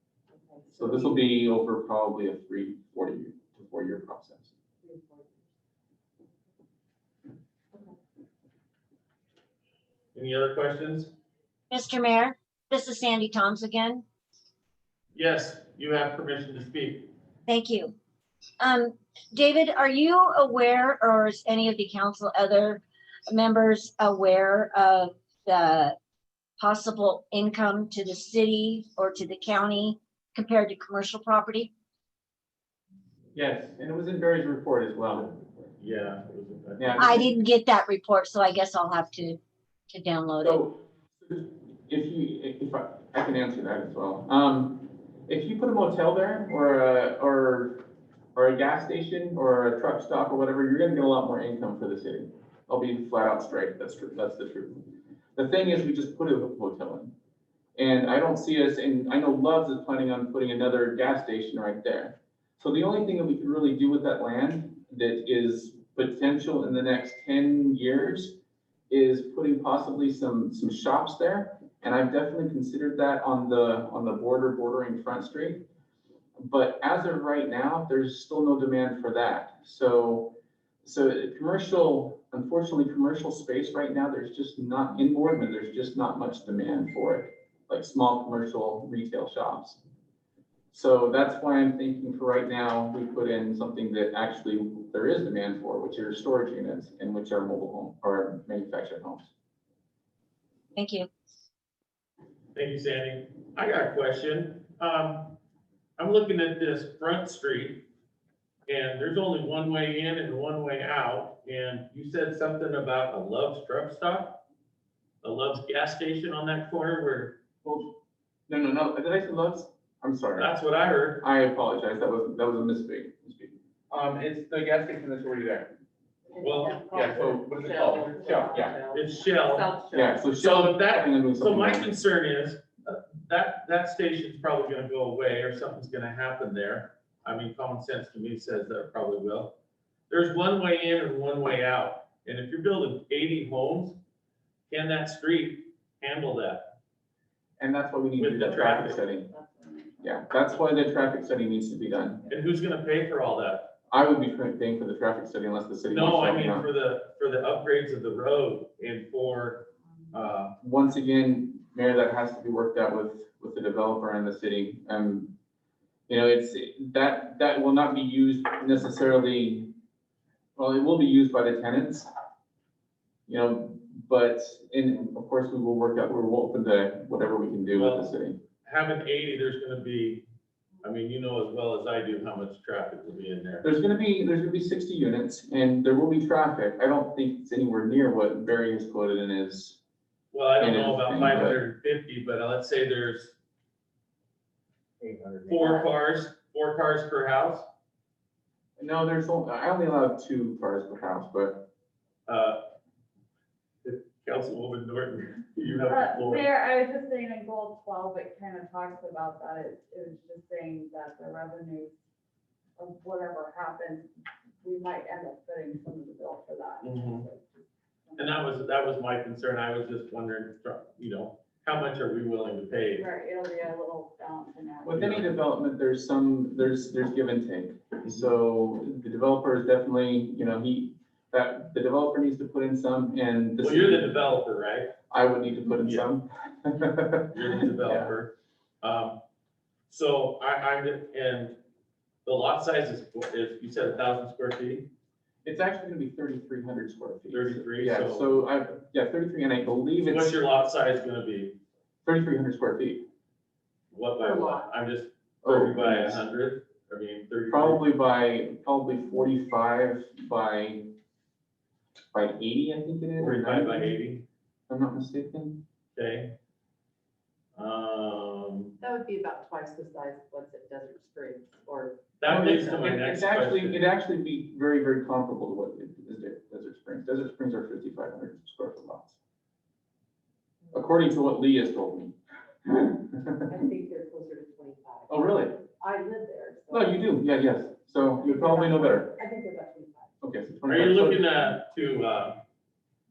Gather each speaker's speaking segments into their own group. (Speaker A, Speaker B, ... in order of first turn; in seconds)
Speaker A: 0.3-1.2, 4.8-5.4, 126.3-130.3, 254.2-254.7, 268.8-272.7, 283.5-287.1, 288.2-290.1
Speaker B: 0.7-4.5, 33.3-35.7, 36.8-37.3, 40.4-47.8, 48.3-57.1, 57.8-68.3, 68.9-75.6, 76.4-89.8, 90.7-99.3, 117.6-117.9, 118.5-120.5, 121.2-125.7, 126.9-128.8, 129.9-131.9, 147.6-149.3, 150.0-152.3, 153.9-156.7, 160.6-165.3, 166.1-169.7, 170.6-172.1, 173.3-178.4, 183.6-189.8, 190.6-191.6, 198.8-201.7, 224.8-234.1, 235.1-238.1, 245.4-250.4, 252.0-253.0, 255.4-256.2, 257.5-260.9, 262.1-263.9, 264.7-265.6, 272.2-279.1, 280.7-282.1, 282.6-283.3, 285.1-285.5, 286.7-289.1, 290.2-291.3
Speaker C: 10.1-11.1, 15.1-17.1, 35.8-37.1, 102.5-105.3, 106.0-107.8, 108.7-114.4, 115.2-117.4, 120.3-121.2, 126.4-126.8, 128.9-129.7, 130.3-139.5, 140.1-144.0, 144.7-146.7, 148.2-149.0, 152.3-153.7, 155.9-160.5, 177.7-180.2, 180.8-183.7, 190.3-193.3, 195.0-197.7, 202.3-202.6, 203.8-206.5, 216.8-217.2, 218.2-223.1, 225.0-225.3, 233.6-234.9, 237.3-239.2, 239.9-241.6, 242.2-244.9, 247.3-248.3, 250.0-251.6, 253.9-257.8, 263.2-264.2, 265.9-266.3, 267.6-268.7, 272.2-273.8, 290.7-292.4
Speaker D: 11.7-14.0, 17.5-17.9, 18.6-25.9, 26.6-31.7, 37.0-39.4, 39.9-40.6, 100.7-101.1
Speaker E: 148.4-150.2, 205.8-211.9, 212.8-214.1, 214.6-218.4, 222.9-225.1